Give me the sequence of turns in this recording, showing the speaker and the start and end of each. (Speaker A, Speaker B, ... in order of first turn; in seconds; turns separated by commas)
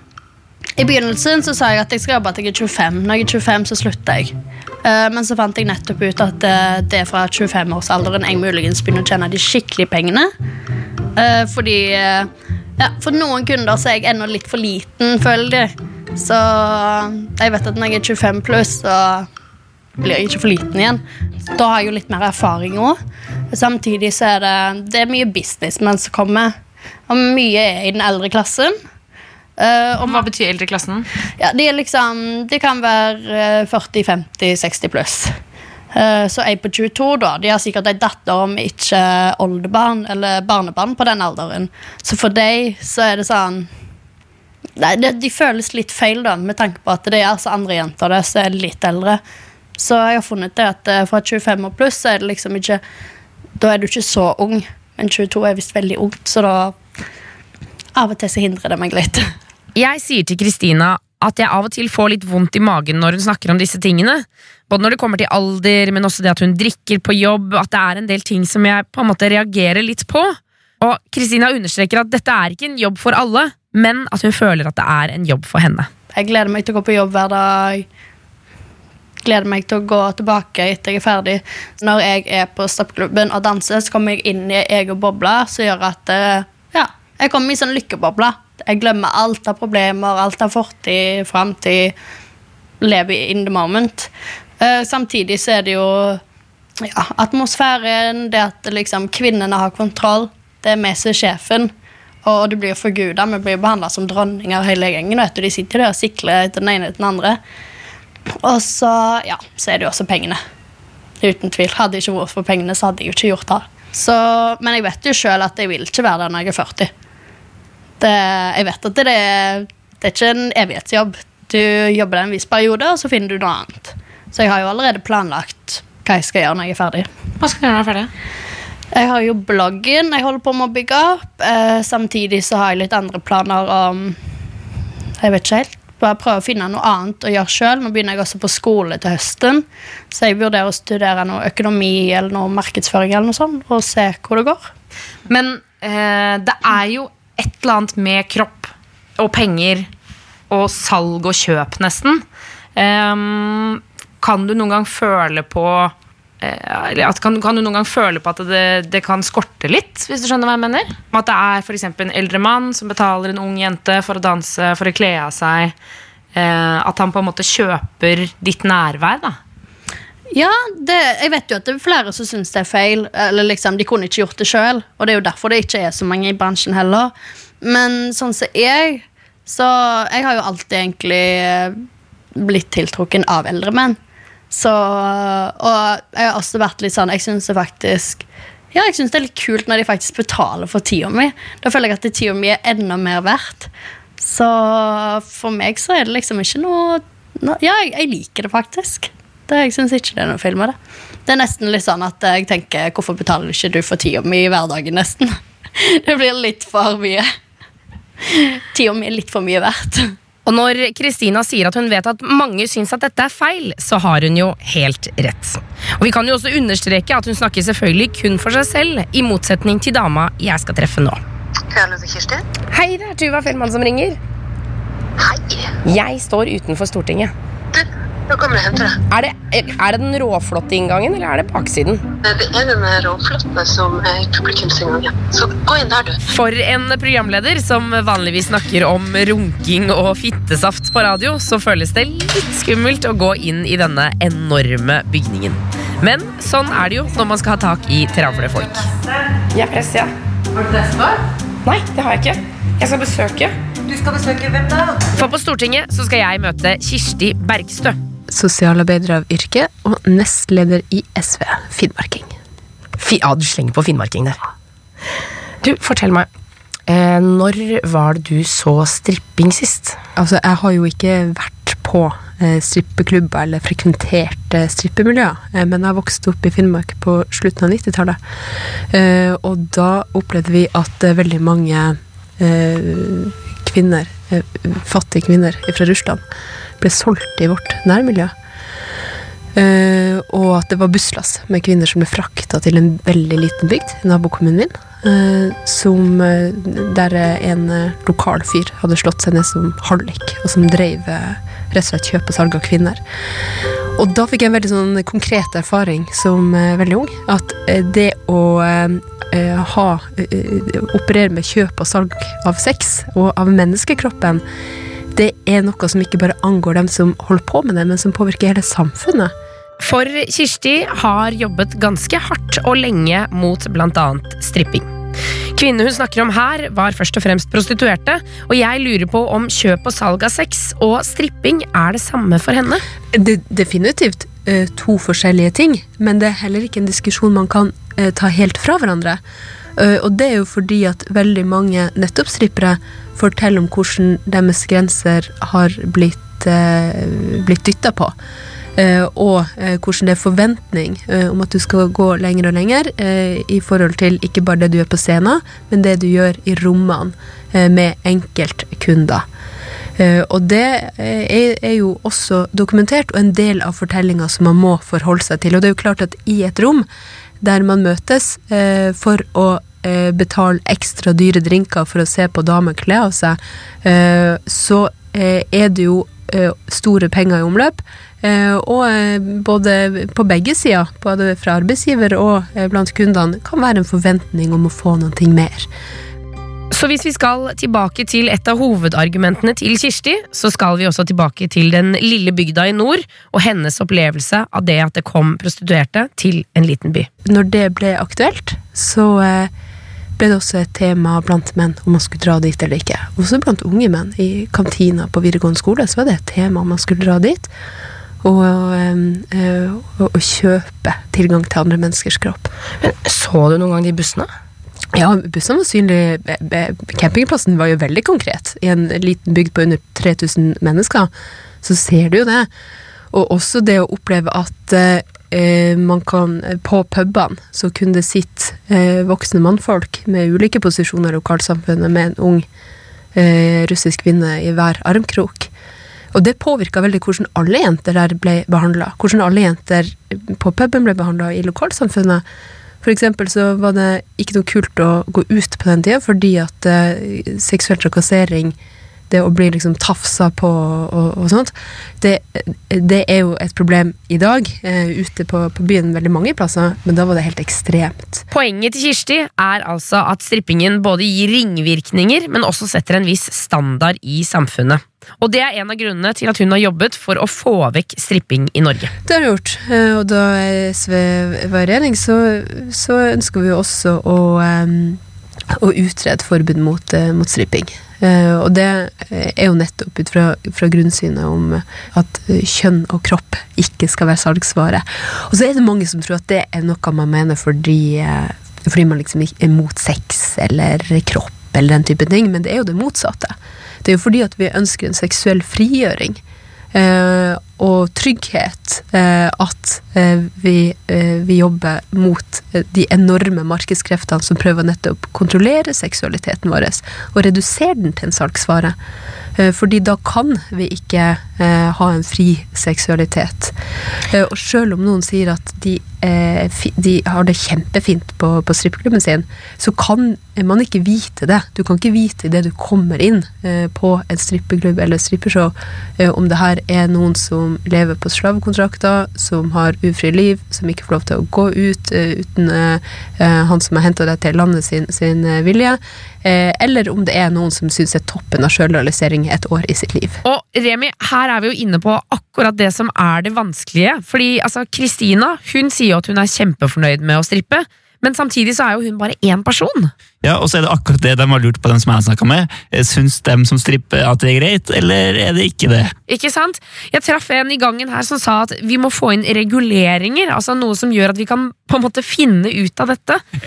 Speaker A: 0.8-10.3, Speaker A: 11.2-19.3, Speaker A: 20.0-21.0, Speaker A: 21.5-23.0, Speaker A: 23.5-26.5, Speaker A: 27.1-28.7, Speaker A: 29.6-30.2, Speaker B: 30.0-31.1, Speaker A: 31.4-35.3, Speaker A: 35.9-43.7, Speaker A: 44.8-49.2, Speaker A: 49.8-52.8, Speaker A: 53.6-56.8, Speaker A: 57.9-59.2, Speaker C: 59.7-75.9, Speaker A: 76.1-77.8, Speaker A: 79.2-91.9, Speaker A: 92.8-96.2, Speaker A: 96.8-101.7, Speaker A: 102.2-107.4, Speaker A: 108.4-110.4, Speaker A: 111.2-116.9, Speaker A: 118.0-127.1, Speaker B: 127.4-128.1, Speaker A: 128.9-134.2, Speaker A: 135.2-144.7, Speaker B: 145.3-149.9, Speaker B: 150.5-152.2, Speaker B: 152.7-165.7, Speaker B: 166.3-169.4, Speaker A: 170.3-181.8, Speaker A: 182.3-184.0, Speaker A: 184.5-200.8, Speaker A: 201.3-207.2, Speaker A: 208.2-210.1, Speaker C: 210.4-221.2, Speaker D: 221.7-222.4, Speaker C: 222.7-224.2, Speaker D: 225.2-225.7, Speaker C: 225.8-227.3, Speaker D: 227.7-229.0, Speaker C: 229.1-232.0, Speaker D: 232.2-236.2, Speaker C: 236.3-248.9, Speaker C: 249.5-250.1, Speaker C: 251.6-253.5, Speaker C: 255.1-258.0, Speaker E: 258.3-262.3, Speaker C: 263.0-264.4, Speaker C: 265.6-266.3, Speaker C: 266.9-269.9, Speaker E: 270.1-278.2, Speaker E: 278.9-286.2, Speaker E: 286.8-288.3, Speaker E: 289.5-303.0, Speaker E: 303.9-314.4, Speaker E: 315.1-319.3, Speaker C: 319.8-324.9, Speaker C: 325.5-332.8, Speaker E: 333.1-339.2, Speaker E: 339.8-348.1, Speaker E: 348.8-359.2, Speaker E: 360.0-366.9, Speaker E: 367.4-385.7, Speaker C: 386.7-397.1, Speaker E: 397.2-399.5, Speaker E: 400.2-407.5, Speaker E: 408.2-412.5, Speaker C: 413.0-413.5, Speaker E: 414.9-421.1, Speaker E: 421.6-422.5, Speaker E: 423.1-432.4, Speaker E: 433.1-435.5, Speaker E: 436.1-442.2, Speaker E: 442.8-448.5, Speaker E: 449.1-458.2, Speaker C: 458.3-468.9, Speaker E: 469.1-475.0, Speaker E: 475.5-496.2, Speaker E: 496.7-508.8, Speaker E: 509.4-513.5, Speaker E: 514.1-540.2, Speaker C: 540.2-549.9, Speaker F: 550.2-555.9, Speaker C: 556.1-563.2